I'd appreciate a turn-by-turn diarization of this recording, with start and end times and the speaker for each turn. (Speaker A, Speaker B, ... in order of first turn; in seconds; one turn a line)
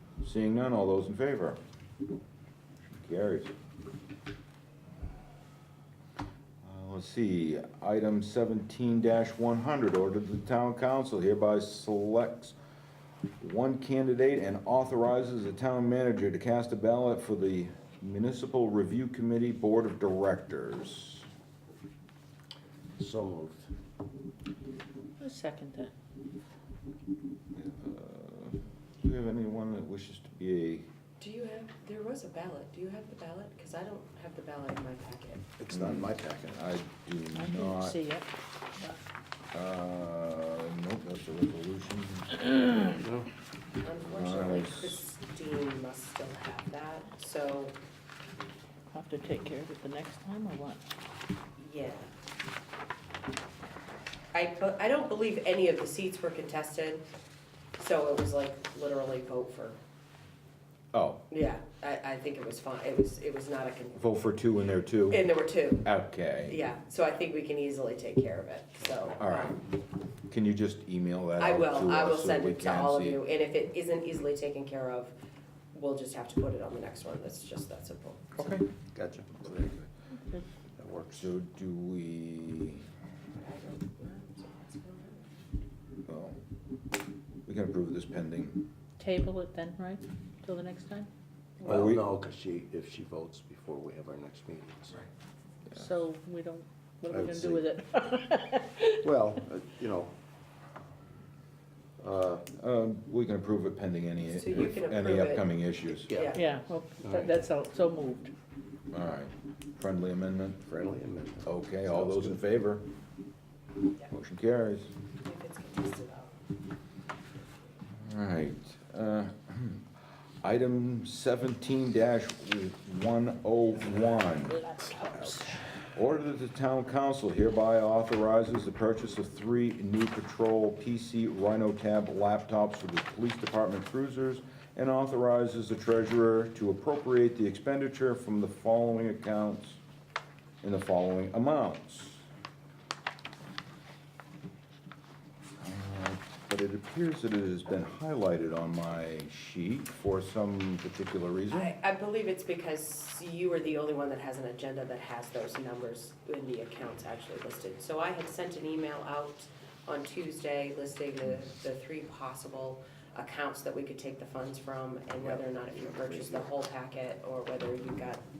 Speaker A: 0.2-1.6
Speaker A: 2.8-3.5
Speaker A: 6.6-12.5
Speaker A: 13.4-21.2
Speaker B: 23.0-23.7
Speaker C: 25.2-25.9
Speaker A: 27.5-30.9
Speaker D: 31.2-35.4
Speaker B: 35.6-36.6
Speaker A: 35.7-38.0
Speaker C: 37.3-39.0
Speaker A: 39.5-42.6
Speaker B: 43.0-43.3
Speaker D: 43.8-47.8
Speaker A: 44.1-45.0
Speaker C: 48.9-50.8
Speaker D: 51.6-52.1
Speaker D: 54.3-57.0
Speaker D: 57.8-59.8
Speaker A: 60.9-61.2
Speaker D: 61.3-64.0
Speaker A: 64.0-66.6
Speaker D: 65.1-65.9
Speaker D: 66.4-69.6
Speaker A: 69.2-69.6
Speaker A: 70.3-73.2
Speaker D: 71.4-75.1
Speaker D: 75.7-78.4
Speaker A: 78.3-78.7
Speaker B: 78.9-79.8
Speaker B: 80.8-81.3
Speaker A: 81.2-82.8
Speaker D: 83.3-85.3
Speaker A: 86.0-86.4
Speaker A: 87.5-88.6
Speaker C: 89.0-91.1
Speaker B: 91.6-95.0
Speaker A: 91.6-92.0
Speaker C: 95.7-99.0
Speaker B: 97.1-97.6
Speaker B: 99.0-100.1
Speaker B: 102.0-102.5
Speaker A: 102.6-106.1
Speaker D: 104.2-105.5
Speaker B: 106.0-106.4
Speaker D: 106.0-106.5
Speaker C: 106.3-108.3
Speaker B: 107.0-107.3
Speaker A: 108.9-110.6
Speaker B: 110.6-112.4
Speaker A: 111.4-112.8
Speaker A: 114.1-114.9
Speaker D: 115.2-116.3
Speaker A: 117.9-119.8
Speaker A: 120.4-124.6
Speaker C: 124.5-125.6
Speaker A: 125.9-139.8
Speaker A: 140.6-142.2
Speaker A: 145.6-151.7
Speaker D: 151.5-168.2
Speaker B: 165.2-166.4